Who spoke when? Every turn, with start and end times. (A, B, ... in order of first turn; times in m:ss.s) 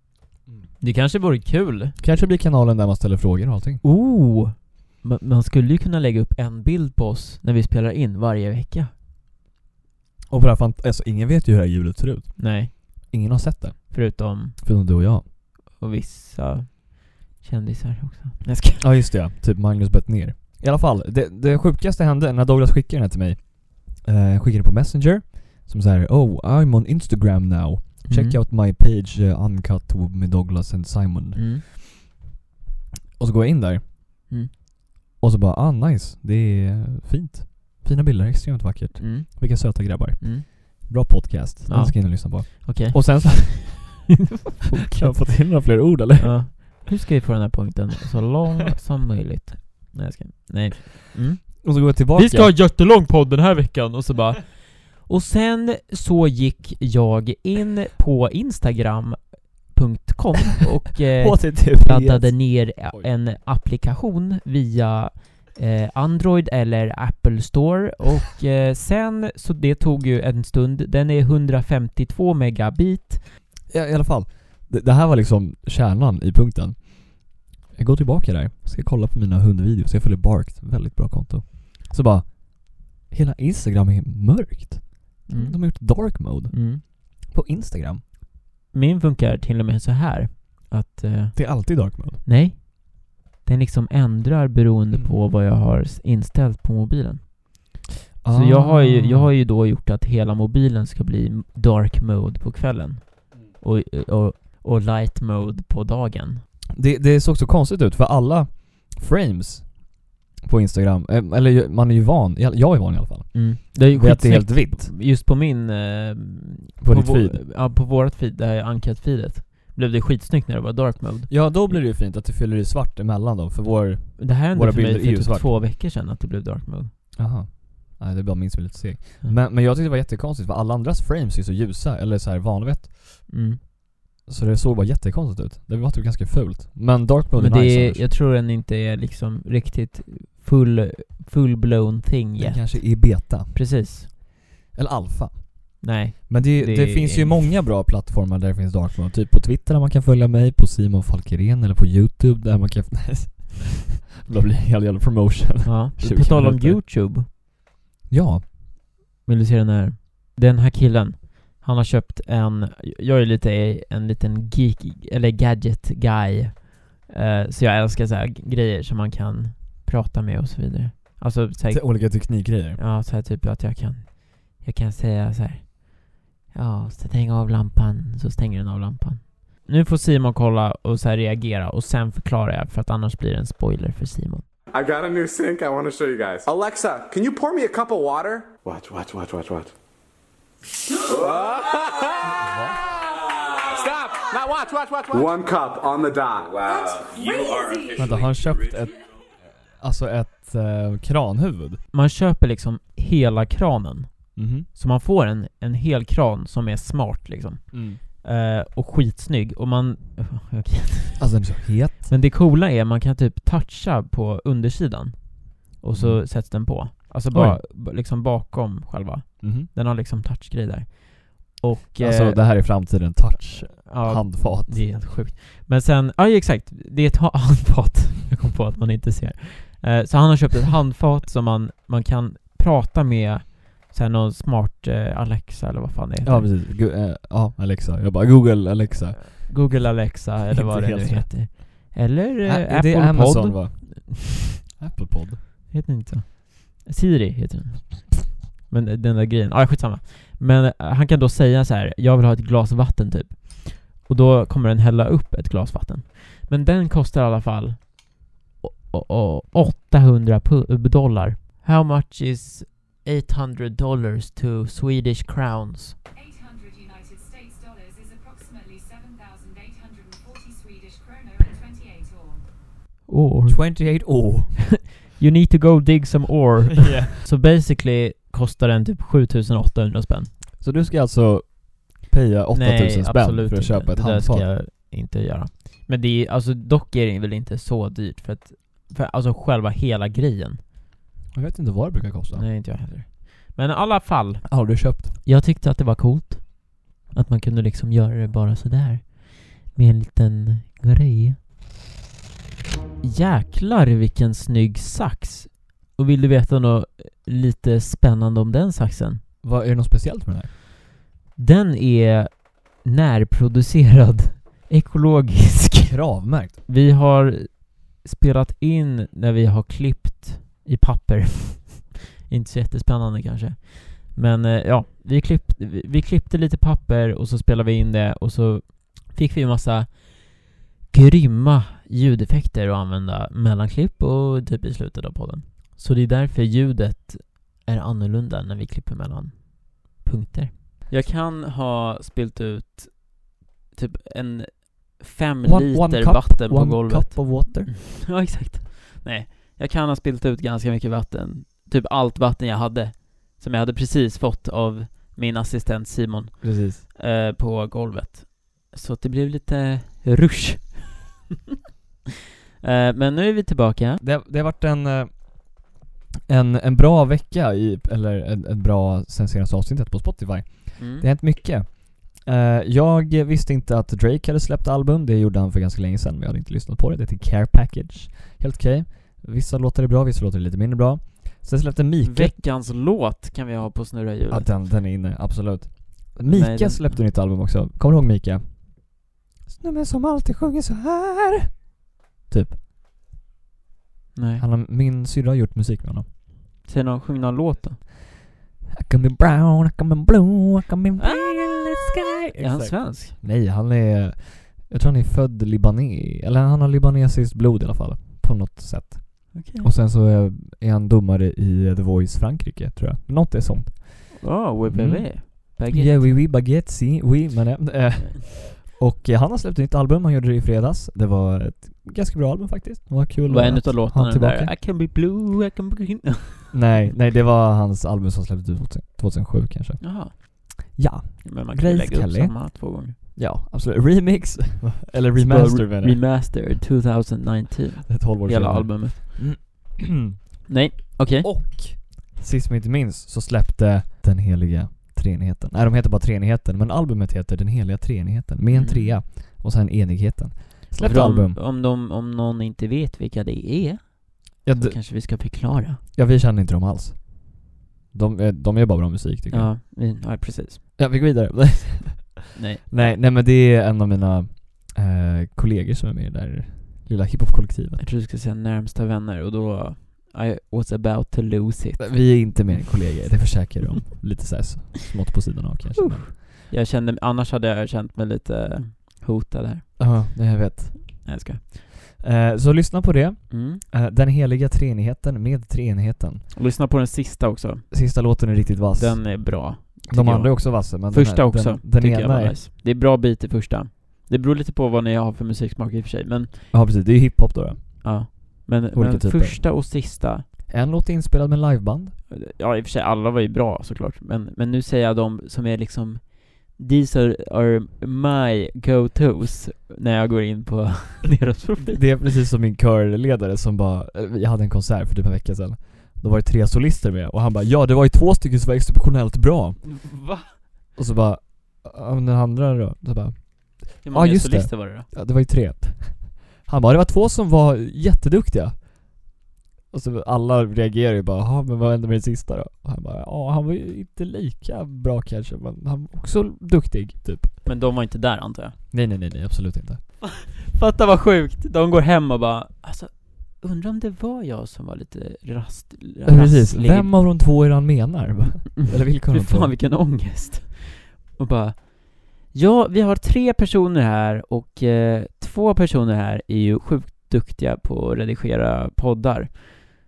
0:00.8-0:02.0 A
0:02.0-0:03.8 B
0:03.8-0:08.9 A
0:10.3-0:15.2 B
0:12.4-0:13.1 A
0:13.9-0:14.6 A
0:15.7-0:18.8 A
0:18.8-0:31.5 B
0:28.1-0:28.4 A
0:31.4-0:31.6 A
0:33.2-0:33.8 B
0:35.2-0:44.1 B
0:39.0-0:41.0 A
0:41.7-0:43.8 A
0:44.6-0:45.2 A
0:44.8-0:46.4 B
0:46.2-1:13.2 A
0:51.6-0:52.6 B
1:01.2-1:03.1 B
1:13.7-1:28.0 B
1:25.3-1:26.8 A
1:28.7-1:37.6 A
1:31.4-1:32.2 B
1:38.2-1:39.3 B
1:38.3-1:46.4 A
1:46.7-1:54.9 B
1:53.3-2:01.8 A
1:56.8-1:57.4 B
2:01.3-2:05.5 B
2:04.2-2:06.9 A
2:07.2-2:13.3 B
2:13.3-2:13.6 A
2:14.3-2:18.1 B
2:17.4-2:24.1 A
2:22.4-2:23.6 B
2:24.7-2:36.8 B
2:25.8-2:27.4 A
2:35.6-2:37.3 A
2:38.1-2:38.4 B
2:39.2-3:04.4 A
2:51.7-2:52.8 B
3:04.7-3:09.7 C
3:11.0-3:12.3 C
3:12.4-3:12.8 B
3:13.6-3:16.6 C
3:16.6-3:18.1 D
3:18.0-3:18.9 B
3:19.7-3:21.8 B
3:21.9-3:42.6 A
3:24.4-3:24.7 B
3:27.7-3:28.0 B
3:31.2-3:32.1 B
3:36.0-3:36.7 B
3:37.3-3:37.6 B
3:39.4-3:39.7 B
3:42.0-3:44.9 B
3:43.8-3:56.5 A
3:56.2-3:59.9 B
3:59.2-4:04.3 A
4:00.5-4:01.7 B
4:02.4-4:05.4 B
4:05.7-4:26.0 A
4:26.1-4:32.4 D
4:33.1-4:33.6 A
4:33.5-4:34.7 B
4:34.7-4:40.3 A
4:36.8-4:37.1 B
4:40.6-4:44.5 B
4:42.5-4:50.6 A
4:51.3-4:52.5 B
4:52.3-5:01.4 A
4:54.5-4:55.2 B
5:03.0-5:09.2 A
5:09.4-5:10.5 B
5:11.4-6:00.9 A
5:15.9-5:16.6 B
5:45.4-5:47.7 B
5:56.4-5:56.8 B
6:02.6-6:04.0 A
6:04.0-6:05.7 B
6:06.3-6:22.4 B
6:10.8-6:11.1 A
6:22.0-6:24.5 A
6:24.3-6:31.8 B
6:26.3-6:27.0 A
6:32.3-6:32.6 B
6:34.2-6:34.4 A
6:34.4-6:36.1 B
6:36.6-6:37.8 A
6:38.8-7:04.5 B
6:41.0-6:41.6 A
6:42.4-6:43.2 A
6:49.3-6:49.7 A
6:54.2-6:56.1 A
7:03.3-7:06.8 A
7:06.5-7:16.0 B
7:09.8-7:13.0 A
7:15.2-7:19.0 A
7:17.9-7:20.5 B
7:20.5-7:21.4 A
7:21.2-7:31.4 B
7:28.5-7:29.0 A
7:30.8-7:35.8 A
7:34.4-7:34.8 B
7:35.9-7:39.5 B
7:39.3-7:40.6 A
7:40.8-7:47.8 B
7:42.3-7:43.0 A
7:47.8-7:52.5 A
7:51.8-7:56.2 B
7:55.8-8:00.1 A
7:59.8-8:01.1 B
8:01.0-8:01.4 A
8:02.0-8:06.3 B
8:03.3-8:03.6 A
8:06.3-8:07.7 A
8:07.7-8:12.4 B
8:08.8-8:16.4 A
8:16.5-8:19.4 B
8:17.8-8:20.3 A
8:20.5-8:22.0 B
8:22.1-8:32.0 A
8:31.6-8:39.7 B
8:39.6-8:40.3 A
8:40.8-8:49.0 B
8:43.8-8:44.9 A
8:49.7-8:57.4 B
8:57.4-8:58.6 A
8:58.7-8:59.8 B
9:00.0-9:06.9 A
9:06.0-9:09.6 B
9:08.6-9:19.4 A